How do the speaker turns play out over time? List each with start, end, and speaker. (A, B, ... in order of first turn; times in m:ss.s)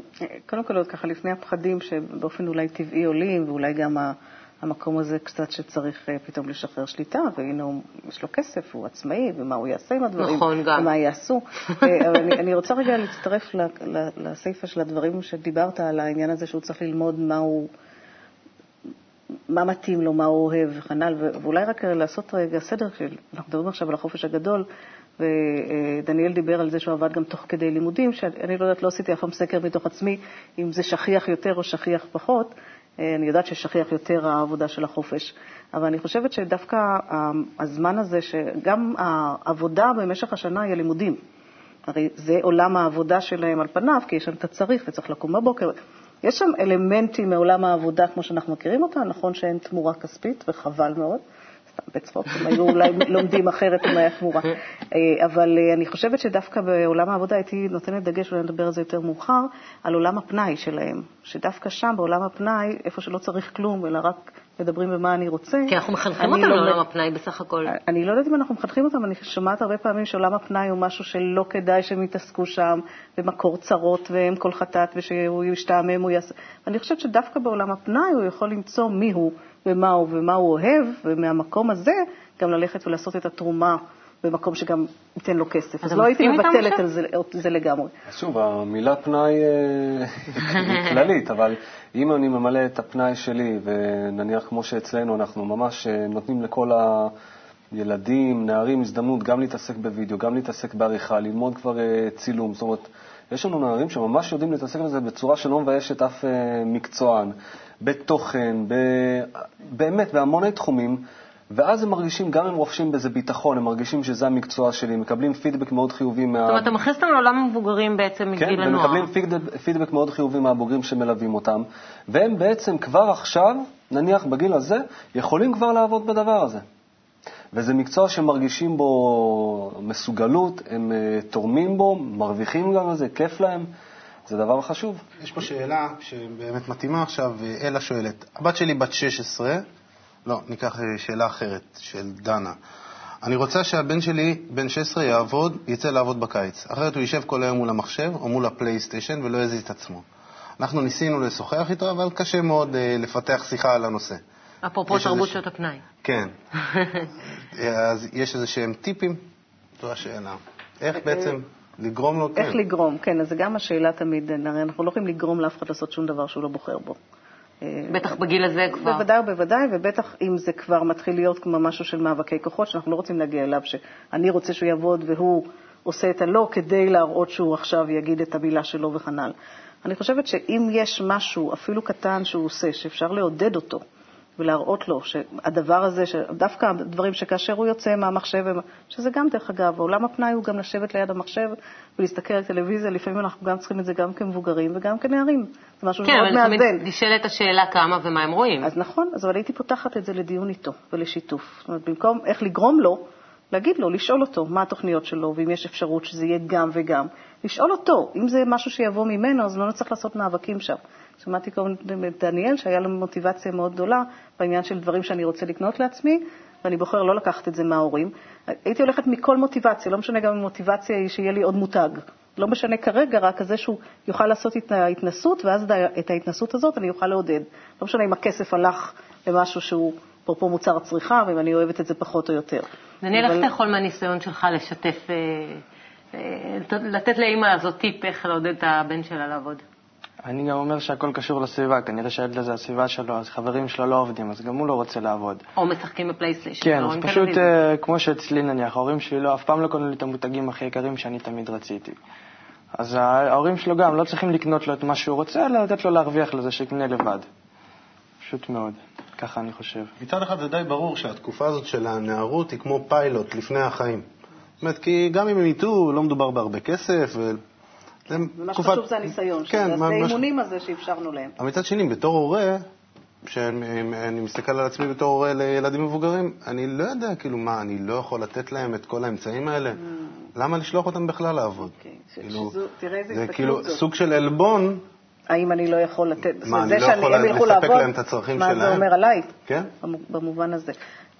0:00.4-0:17.7 A
0:10.2-0:10.9 B
0:19.5-0:24.6 A
0:25.2-0:41.2 A
0:41.9-0:51.2 A
0:51.7-1:06.8 A
1:05.7-1:07.7 B
1:07.7-1:27.9 A
1:25.8-1:26.8 B
1:28.1-1:37.1 C
1:37.7-1:56.7 C
1:56.5-1:59.1 B
1:58.4-2:06.6 C
2:07.5-2:13.7 C
2:14.2-2:15.0 C
2:15.2-2:19.6 D
2:20.2-2:22.6 D
2:23.2-2:30.0 D
2:30.6-2:34.2 D
2:34.6-2:35.8 B
2:34.9-2:35.4 D
2:36.0-2:36.3 D
2:37.0-2:39.2 D
2:39.8-2:42.6 D
2:42.4-2:47.0 A
2:47.6-2:48.2 A
2:47.9-2:49.0 B
2:48.7-3:03.8 A
3:04.4-3:16.8 A
3:16.0-3:18.7 B
3:18.6-3:53.5 A
3:53.0-3:55.6 B
3:56.1-3:59.6 B
4:00.2-4:05.4 E
4:05.6-4:07.5 B
4:06.6-4:12.0 E
4:12.8-4:17.3 E
4:18.2-4:19.9 E
4:20.0-4:24.0 D
4:24.6-4:27.4 D
4:28.1-4:28.9 D
4:28.4-4:31.4 A
4:29.5-4:30.2 D
4:31.4-4:32.6 D
4:33.2-4:39.8 D
4:40.4-4:41.7 D
4:41.8-4:43.8 A
4:42.2-4:42.5 D
4:43.1-4:44.8 D
4:45.3-4:50.8 A
4:46.4-4:48.8 D